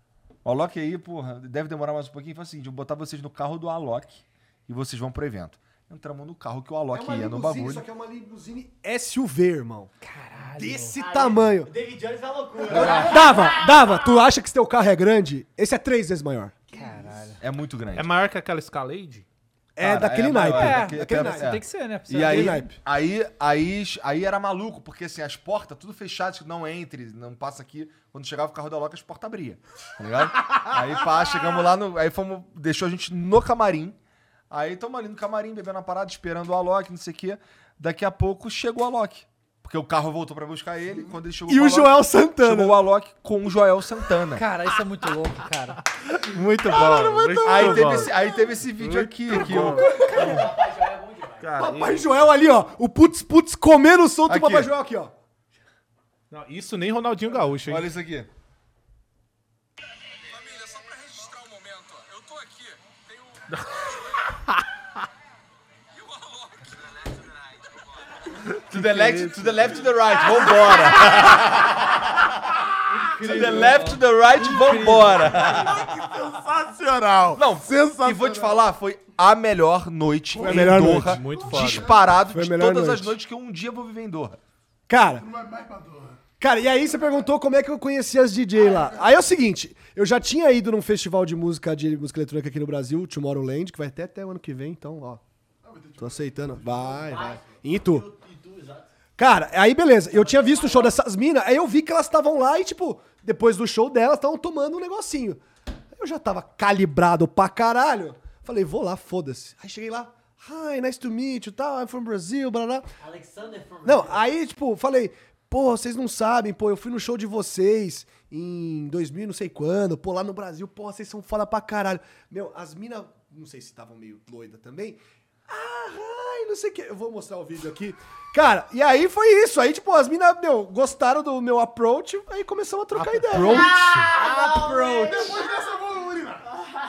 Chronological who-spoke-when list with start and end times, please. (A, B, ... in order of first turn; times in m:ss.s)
0:00.4-0:07.8 A
0:06.9-0:09.9 B
0:10.0-0:10.9 C
0:10.6-0:11.7 B
0:11.0-0:14.2 D
0:12.7-0:16.6 B
0:12.7-0:13.2 C
0:16.7-0:17.4 C
0:17.4-0:18.1 A
0:17.9-0:19.2 E
0:19.8-0:21.5 B
0:19.8-0:34.0 A
0:20.4-0:22.6 C
0:22.1-0:22.8 B
0:34.5-0:44.4 A
0:41.5-0:42.8 B
0:44.3-0:45.8 C
0:46.2-0:48.1 E
0:46.5-0:49.9 A
0:48.0-0:48.4 F
0:48.8-0:50.4 E
0:49.4-0:50.1 F
0:50.0-0:51.5 D
0:51.4-0:52.0 E
0:51.6-0:55.1 B
0:54.3-0:54.7 A
0:56.3-0:57.9 E
0:57.6-0:58.3 A
1:00.4-1:02.7 A
1:08.7-1:12.6 A
1:08.7-1:09.4 E
1:13.1-1:15.4 C
1:13.2-1:16.0 A
1:15.5-1:18.6 F
1:17.3-1:24.4 A
1:20.3-1:22.2 F
1:20.4-1:21.2 B
1:20.9-1:21.9 E
1:22.2-1:23.2 B
1:24.9-1:25.2 B
1:25.2-1:26.2 F
1:26.4-1:35.2 B
1:28.6-1:29.1 F
1:35.6-1:37.3 F
1:36.0-1:38.0 B
1:37.1-1:38.9 D
1:39.2-1:45.4 B
1:40.1-1:40.9 D
1:45.9-1:52.9 B
1:53.0-1:54.2 D
1:53.8-2:13.7 B
2:12.9-2:14.1 E
2:13.5-2:15.4 D
2:14.3-2:15.1 B
2:15.0-2:16.4 F